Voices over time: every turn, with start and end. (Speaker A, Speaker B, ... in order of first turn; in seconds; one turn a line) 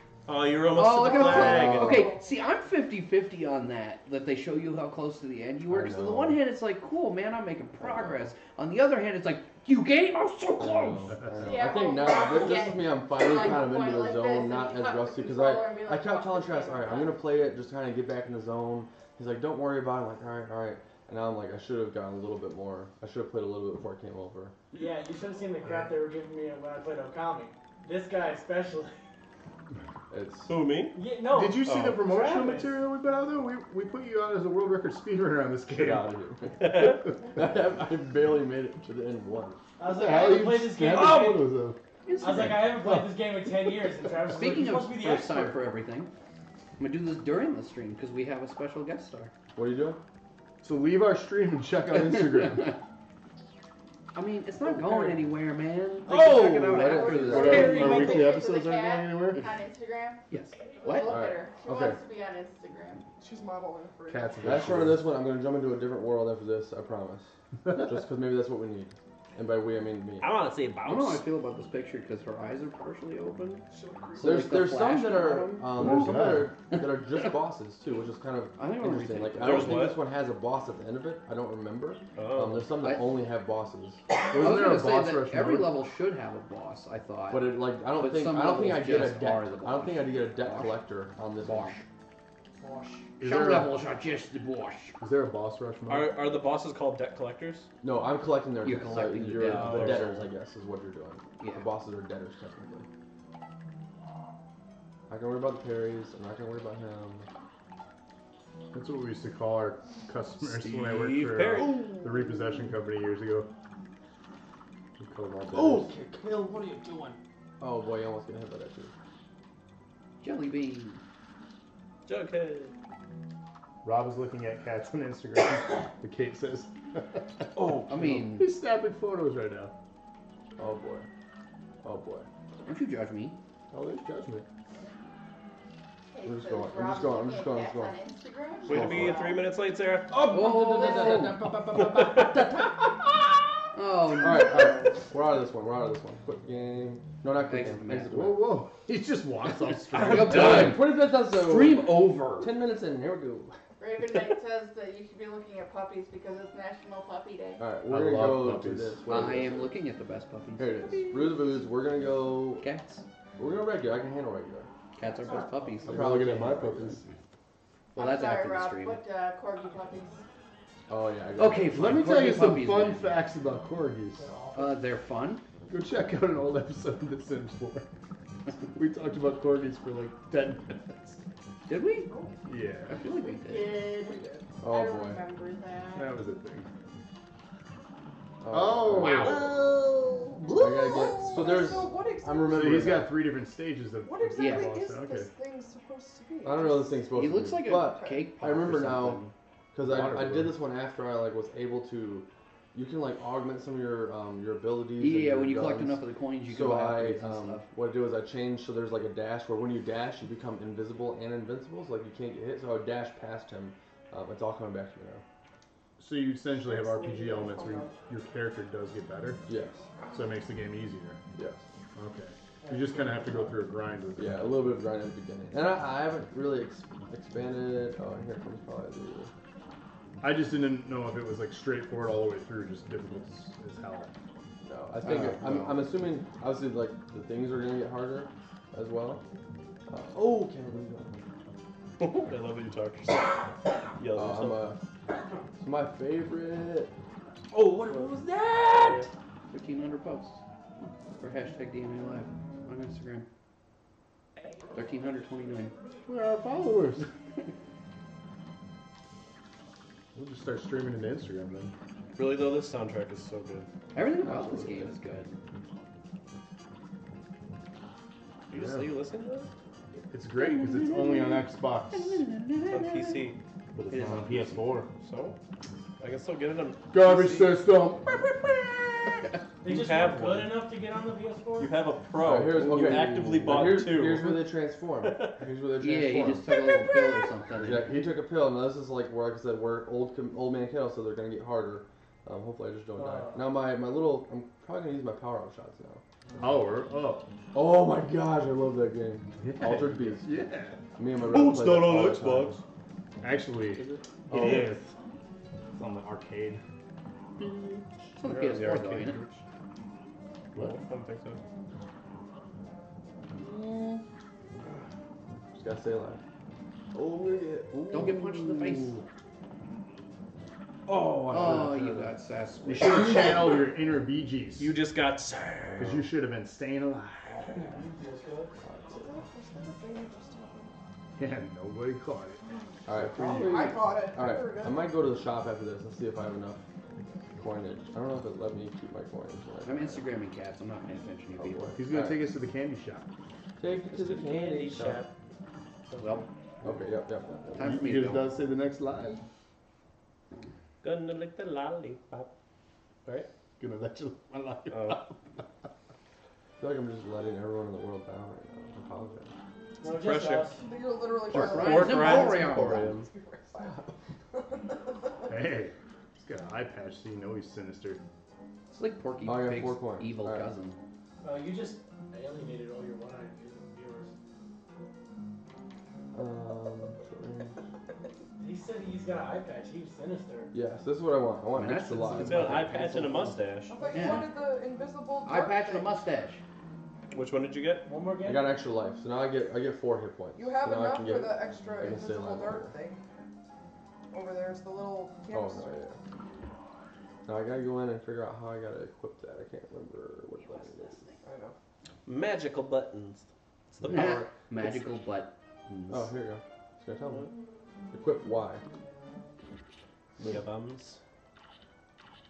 Speaker A: 0.3-2.1
Speaker B: 0.7-11.3
Speaker C: 1.0-2.2
Speaker D: 5.7-6.4
Speaker D: 7.8-8.3
Speaker D: 10.6-24.6
Speaker E: 11.4-17.2
Speaker F: 24.7-29.0
Speaker G: 25.6-25.9
Speaker D: 30.1-30.6
Speaker A: 30.5-31.0
Speaker F: 30.9-32.8
Speaker G: 31.3-36.1
Speaker A: 31.6-32.0
Speaker D: 35.7-39.6
Speaker A: 36.6-37.0
Speaker F: 39.8-41.5
Speaker G: 39.8-44.1
Speaker B: 42.0-42.8
Speaker F: 42.2-45.6
Speaker B: 44.3-46.1
Speaker B: 46.8-49.3
Speaker D: 49.5-50.0
Speaker G: 50.6-52.8
Speaker B: 54.1-58.2
Speaker D: 54.6-55.2
Speaker D: 56.1-58.2
Speaker E: 56.9-60.2
Speaker G: 57.2-59.5
Speaker B: 60.3-61.2
Speaker E: 60.8-63.0
Speaker C: 60.9-61.1
Speaker D: 61.1-62.0
Speaker C: 63.2-64.9
Speaker G: 64.1-65.0
Speaker D: 64.4-70.3
Speaker A: 70.2-71.3
Speaker B: 70.8-77.3
Speaker C: 73.7-74.4
Speaker D: 74.2-84.0
Speaker G: 75.7-76.5
Speaker B: 78.6-79.8
Speaker A: 79.4-80.0
Speaker A: 82.1-82.7
Speaker B: 82.8-83.1
Speaker G: 84.3-85.8
Speaker B: 84.3-90.8
Speaker D: 87.3-91.8
Speaker B: 91.4-91.9
Speaker G: 93.2-93.8
Speaker B: 93.2-95.0
Speaker G: 95.0-96.2
Speaker A: 95.9-97.7
Speaker D: 97.8-102.9
Speaker B: 98.6-100.3
Speaker A: 99.4-100.1
Speaker B: 101.4-101.7
Speaker D: 105.1-107.3
Speaker G: 108.7-113.5
Speaker A: 110.4-111.9
Speaker G: 115.0-115.9
Speaker D: 115.5-118.9
Speaker B: 120.2-121.0
Speaker A: 122.0-122.7
Speaker G: 123.8-129.7
Speaker D: 127.5-128.3
Speaker B: 127.9-128.5
Speaker D: 130.6-131.1
Speaker D: 131.8-132.3
Speaker B: 132.6-133.4
Speaker G: 133.7-134.4
Speaker E: 136.1-139.5
Speaker D: 136.2-138.0
Speaker D: 138.7-139.2
Speaker A: 138.7-140.2
Speaker D: 140.1-148.6
Speaker B: 140.3-141.4
Speaker A: 141.7-142.4
Speaker B: 143.7-144.7
Speaker B: 147.5-148.1
Speaker G: 148.1-150.8
Speaker B: 149.9-152.5
Speaker D: 150.0-153.6
Speaker E: 153.8-157.7
Speaker D: 157.6-159.7
Speaker G: 157.8-159.5
Speaker B: 159.1-161.5
Speaker D: 160.6-162.6
Speaker B: 162.6-163.0
Speaker D: 163.4-164.7
Speaker B: 164.9-166.2
Speaker E: 165.0-165.4
Speaker F: 165.4-165.8
Speaker G: 165.8-167.1
Speaker D: 165.9-167.0
Speaker B: 167.9-169.0
Speaker E: 167.9-170.3
Speaker D: 170.9-171.9
Speaker B: 171.4-173.2
Speaker G: 171.7-174.3
Speaker F: 174.1-174.8
Speaker B: 174.5-175.4
Speaker G: 175.7-177.9
Speaker G: 178.7-181.2
Speaker B: 181.7-182.1
Speaker G: 182.4-183.1
Speaker B: 182.9-183.7
Speaker E: 183.3-186.2
Speaker D: 184.6-185.2
Speaker G: 185.9-186.7
Speaker D: 188.4-189.6
Speaker G: 188.5-189.5
Speaker B: 188.9-190.0
Speaker D: 190.5-193.2
Speaker C: 190.6-192.9
Speaker B: 190.7-191.3
Speaker G: 192.5-195.3
Speaker C: 194.0-197.0
Speaker B: 194.4-194.7
Speaker D: 196.4-199.2
Speaker B: 197.1-199.3
Speaker D: 199.7-215.2
Speaker G: 199.8-200.6
Speaker B: 205.0-207.7
Speaker G: 216.0-219.5
Speaker C: 216.7-217.8
Speaker D: 219.5-219.9
Speaker G: 220.1-221.2
Speaker D: 221.3-221.6
Speaker G: 221.9-224.6
Speaker F: 222.6-223.6
Speaker D: 224.2-229.3
Speaker G: 230.2-234.1
Speaker D: 234.6-239.2
Speaker B: 235.0-235.9
Speaker D: 239.9-241.2
Speaker A: 242.0-244.6
Speaker D: 244.1-244.8
Speaker D: 245.6-246.9
Speaker D: 247.5-249.1
Speaker A: 247.9-248.1
Speaker A: 248.7-249.1
Speaker B: 249.5-250.4
Speaker B: 251.2-253.3
Speaker B: 254.7-255.7
Speaker G: 256.1-257.1
Speaker G: 260.1-261.7
Speaker A: 262.1-263.7
Speaker B: 263.9-265.3
Speaker G: 264.2-264.9
Speaker A: 268.5-269.5
Speaker G: 268.5-268.9
Speaker G: 270.1-272.3
Speaker B: 270.4-273.3
Speaker A: 272.7-273.4
Speaker G: 273.7-274.9
Speaker B: 273.9-274.7
Speaker A: 274.9-275.4
Speaker A: 276.0-277.5
Speaker G: 276.9-278.2
Speaker F: 279.6-281.7
Speaker A: 279.6-280.6
Speaker A: 281.6-284.4
Speaker D: 282.2-286.4
Speaker B: 282.6-283.2
Speaker A: 285.0-285.3
Speaker B: 285.8-287.9
Speaker D: 287.6-296.0
Speaker F: 292.9-293.6
Speaker G: 296.4-297.3
Speaker D: 297.5-300.3
Speaker G: 299.4-300.8
Speaker D: 300.9-302.5
Speaker A: 301.2-302.6
Speaker G: 302.2-302.6
Speaker G: 303.2-304.9
Speaker D: 304.3-304.7
Speaker A: 304.3-304.9
Speaker G: 305.7-306.6
Speaker G: 307.4-309.4
Speaker B: 308.2-309.2
Speaker A: 308.3-308.8
Speaker A: 310.5-311.4
Speaker B: 313.4-314.0
Speaker D: 315.5-316.2
Speaker D: 316.9-319.0
Speaker B: 317.9-319.0
Speaker D: 320.9-322.1
Speaker B: 321.3-323.4
Speaker G: 322.7-324.8
Speaker A: 324.6-326.0
Speaker G: 325.8-327.8
Speaker F: 327.4-328.6
Speaker D: 328.6-329.1
Speaker C: 328.9-330.7
Speaker G: 331.2-333.8
Speaker C: 332.5-332.8
Speaker D: 332.9-336.6
Speaker C: 333.4-334.9
Speaker D: 337.4-340.1
Speaker B: 339.6-341.7
Speaker D: 341.4-342.3
Speaker G: 341.7-343.1
Speaker D: 343.6-345.1
Speaker A: 343.9-345.1
Speaker A: 345.9-346.3
Speaker B: 346.0-346.3
Speaker D: 346.6-347.8
Speaker B: 347.6-348.3
Speaker G: 347.6-349.2
Speaker A: 350.8-352.3
Speaker G: 353.6-355.4
Speaker A: 354.7-355.0
Speaker D: 356.6-359.3
Speaker F: 359.8-360.7
Speaker A: 359.8-360.5
Speaker C: 360.6-365.3
Speaker A: 361.3-363.1
Speaker B: 361.3-362.9
Speaker D: 363.6-363.9
Speaker G: 365.3-368.0
Speaker B: 368.7-370.8
Speaker D: 369.2-370.5
Speaker F: 371.2-374.1
Speaker D: 376.1-377.6
Speaker F: 378.4-380.5
Speaker D: 380.5-383.3
Speaker B: 381.6-383.3
Speaker A: 382.2-383.8
Speaker C: 383.7-385.9
Speaker B: 383.9-384.4
Speaker B: 385.2-386.4
Speaker A: 387.1-387.8
Speaker F: 387.9-388.6
Speaker D: 388.2-392.7
Speaker C: 390.4-393.0
Speaker C: 394.1-395.7
Speaker D: 395.3-396.0
Speaker D: 397.2-401.0
Speaker B: 400.4-401.2
Speaker C: 401.2-401.6
Speaker A: 402.1-404.8
Speaker B: 403.8-406.1
Speaker D: 405.9-407.3
Speaker D: 407.9-408.6
Speaker A: 410.2-411.0